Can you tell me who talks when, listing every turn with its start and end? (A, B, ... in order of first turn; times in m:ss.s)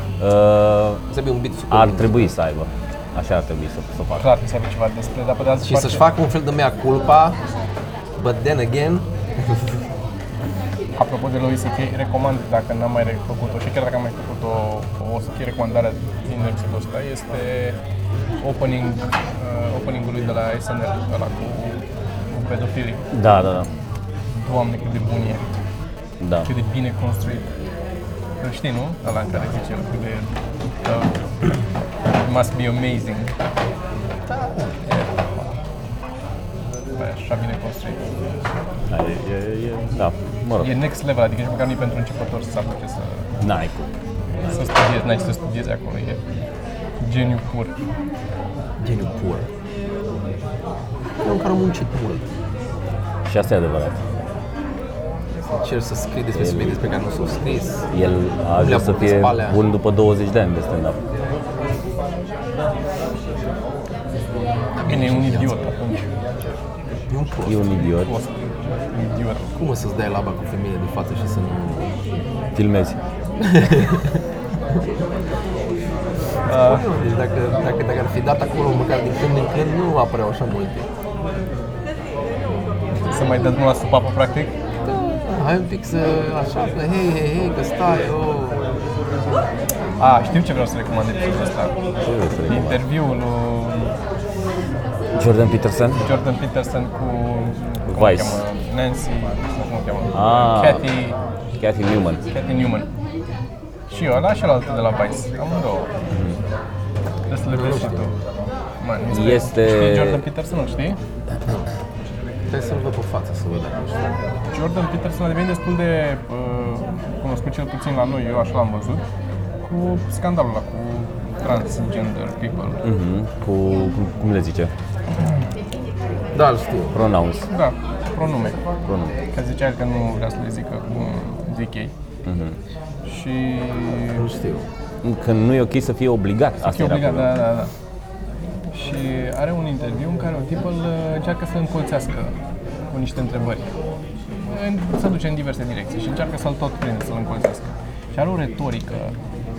0:00.2-0:01.0 A
0:01.1-0:02.3 B
0:01.7-0:04.3 A
0:04.1-0:06.0 C
0:05.6-0:07.4 B
0:08.2-0:09.7 B
0:11.0-0:17.8 C
0:18.4-0:23.1 C
0:23.1-0:23.7 A
0:24.4-0:25.4 C
0:26.2-0:26.5 A
0:26.4-0:27.5 C
0:28.4-0:30.3 C
0:30.8-0:31.6 C
0:32.1-0:33.3 C
0:34.3-0:34.8 B
0:34.9-0:35.5 C
0:37.0-0:38.0 C
0:38.9-0:40.7 A
0:40.6-0:43.3 C
0:43.4-0:44.7 A
0:44.4-0:46.2 C
0:47.0-0:47.7 C
0:48.8-0:49.5 B
0:51.2-0:52.2 B
0:53.2-0:54.0 A
0:55.5-0:57.9 B
0:56.3-0:56.8 A
0:57.9-1:01.0 A
0:58.5-0:59.6 B
1:04.8-1:05.6 B
1:04.8-1:06.1 C
1:07.1-1:07.6 B
1:07.4-1:08.1 A
1:07.8-1:08.3 C
1:08.9-1:09.5 C
1:09.5-1:12.0 B
1:12.5-1:13.0 A
1:13.4-1:14.8 B
1:16.4-1:16.8 C
1:16.5-1:20.9 B
1:23.0-1:24.5 C
1:24.8-1:28.6 B
1:30.0-1:31.8 C
1:32.0-1:32.8 A
1:32.5-1:34.0 C
1:35.1-1:36.0 A
1:36.0-1:41.2 C
1:37.9-1:38.4 A
1:40.1-1:40.9 A
1:41.6-1:42.2 A
1:42.3-1:42.9 C
1:43.9-1:45.9 C
1:46.1-1:46.4 A
1:47.3-1:48.1 C
1:47.5-1:48.1 B
1:48.8-1:51.0 C
1:49.1-1:50.2 A
1:52.5-1:54.2 B
1:54.5-1:59.0 C
1:59.6-2:02.8 C
2:02.8-2:04.7 A
2:06.3-2:07.0 B
2:06.9-2:07.5 A
2:07.5-2:08.6 C
2:08.9-2:09.2 A
2:09.3-2:11.9 C
2:12.2-2:12.6 A
2:13.0-2:14.3 C
2:14.1-2:14.7 B
2:15.0-2:17.4 A
2:16.6-2:17.7 C
2:18.7-2:22.4 C
2:22.9-2:23.7 C
2:24.4-2:29.1 C